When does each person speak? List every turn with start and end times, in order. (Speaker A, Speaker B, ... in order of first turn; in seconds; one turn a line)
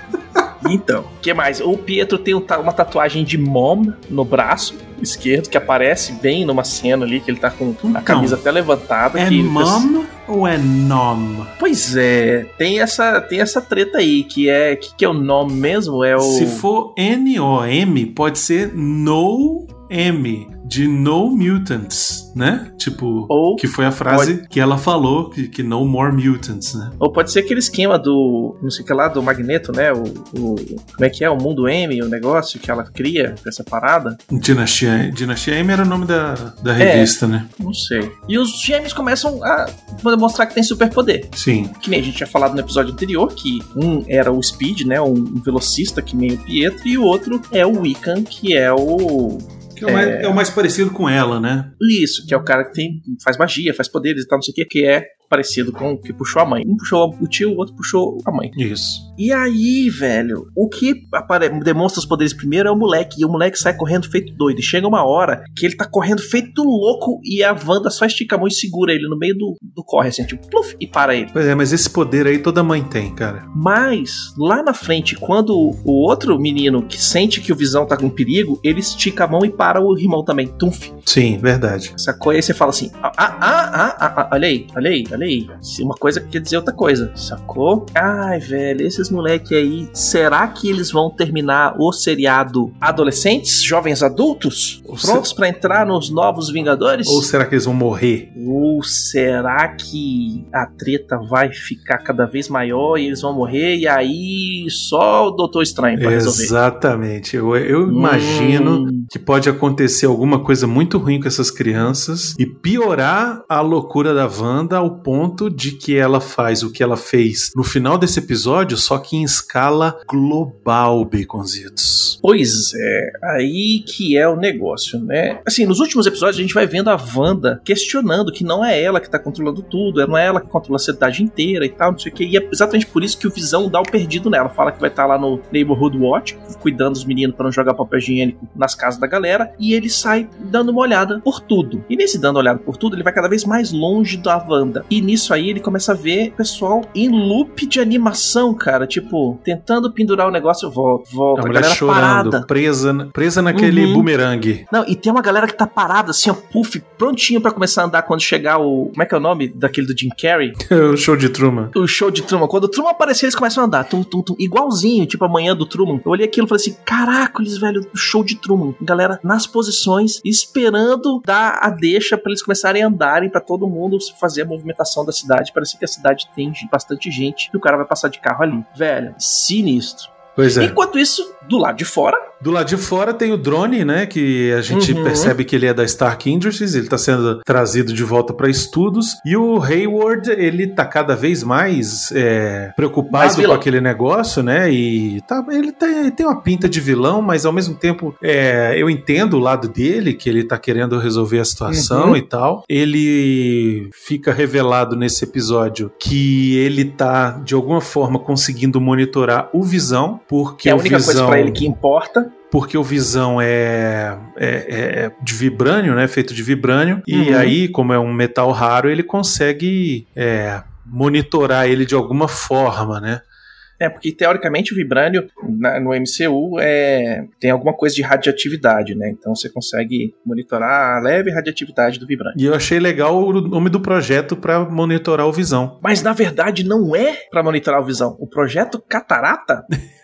Speaker A: 0.6-9.9
Speaker B: 7.8-8.4
Speaker B: 9.2-11.5
Speaker A: 11.6-16.7
Speaker B: 16.2-27.0
Speaker A: 23.3-24.4
Speaker A: 27.0-34.2
Speaker B: 34.3-37.5
Speaker A: 36.8-50.4
Speaker B: 41.4-41.8
Speaker B: 49.8-51.7
Speaker A: 51.8-58.5
Speaker B: 58.5-59.1
Speaker A: 59.2-71.3
Speaker B: 71.3-73.5
Speaker A: 73.5-81.0
Speaker B: 81.1-81.9
Speaker A: 82.0-97.3
Speaker B: 94.9-95.3
Speaker B: 97.1-98.3
Speaker A: 98.3-106.5
Speaker B: 106.0-122.2
Speaker A: 107.9-109.1
Speaker A: 122.2-152.5
Speaker B: 151.4-154.7
Speaker A: 153.5-154.1
Speaker A: 154.7-160.6
Speaker B: 160.6-161.8
Speaker A: 161.8-182.3
Speaker B: 180.4-180.8
Speaker B: 182.4-211.6
Speaker A: 184.7-185.3
Speaker A: 193.1-193.7
Speaker A: 201.7-202.2
Speaker A: 210.7-212.3
Speaker B: 212.5-223.2
Speaker A: 217.1-217.6
Speaker A: 223.8-232.4
Speaker B: 232.3-235.8
Speaker A: 235.8-239.7